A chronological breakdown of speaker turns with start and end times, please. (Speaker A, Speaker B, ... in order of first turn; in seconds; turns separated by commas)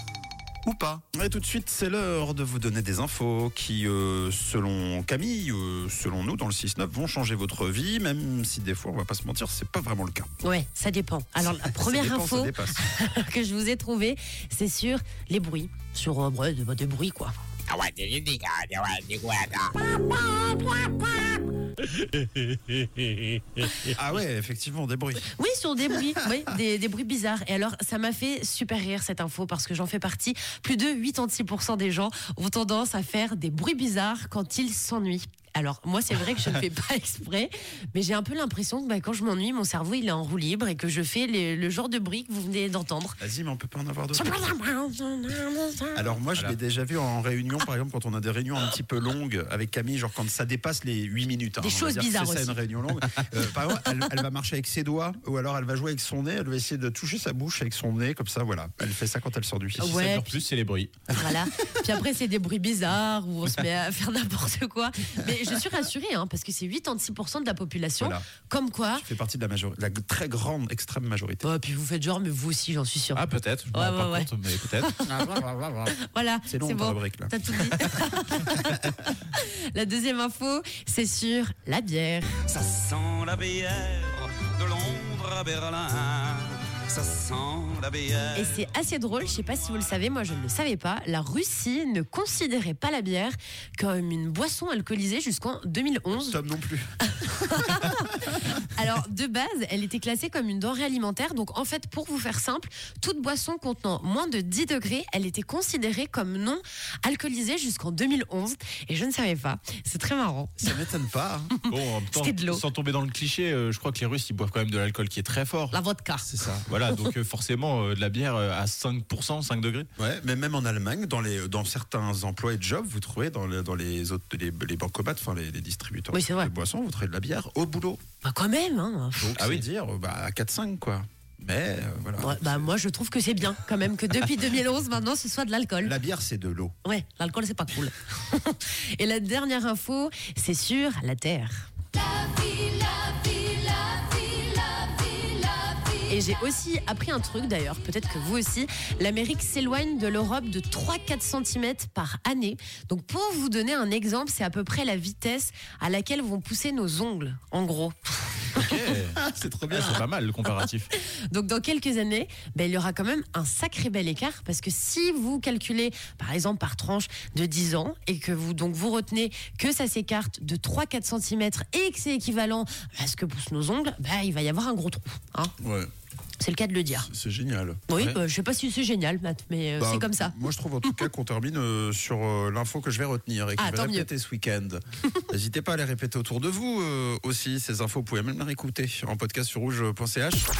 Speaker A: 1.1-10.3, Speaker B: 10.4-17.3, Speaker A: 11.6-12.8, Speaker C: 17.7-19.7, Speaker B: 19.9-21.3, Speaker A: 23.8-25.3, Speaker B: 25.3-43.2, Speaker A: 43.2-44.3, Speaker B: 44.1-46.2, Speaker A: 46.0-60.0, Speaker D: 46.3-46.5, Speaker B: 51.6-52.6, Speaker D: 59.8-61.2, Speaker B: 59.8-60.4, Speaker B: 61.1-69.0, Speaker A: 68.0-68.2, Speaker A: 69.0-71.5, Speaker B: 71.4-82.4, Speaker D: 73.2-74.9, Speaker A: 75.2-75.8, Speaker A: 76.5-77.3, Speaker C: 82.5-88.4, Speaker B: 88.3-96.4, Speaker A: 96.2-97.0, Speaker B: 97.1-110.9, Speaker A: 110.6-111.5, Speaker B: 111.6-112.6, Speaker D: 111.6-115.8, Speaker B: 115.7-116.3, Speaker A: 116.2-116.7, Speaker D: 116.7-119.9, Speaker B: 116.9-117.1, Speaker A: 120.0-128.0, Speaker B: 126.1-126.5, Speaker B: 128.2-129.3, Speaker A: 129.2-132.7, Speaker D: 129.3-129.6, Speaker B: 132.2-136.0, Speaker A: 135.8-136.7, Speaker B: 136.8-158.7, Speaker D: 158.5-160.9, Speaker A: 159.3-159.8, Speaker B: 161.0-175.5, Speaker A: 175.6-175.9, Speaker B: 176.4-177.1, Speaker A: 177.0-178.2, Speaker B: 177.9-180.3, Speaker A: 179.8-190.5, Speaker B: 183.6-184.1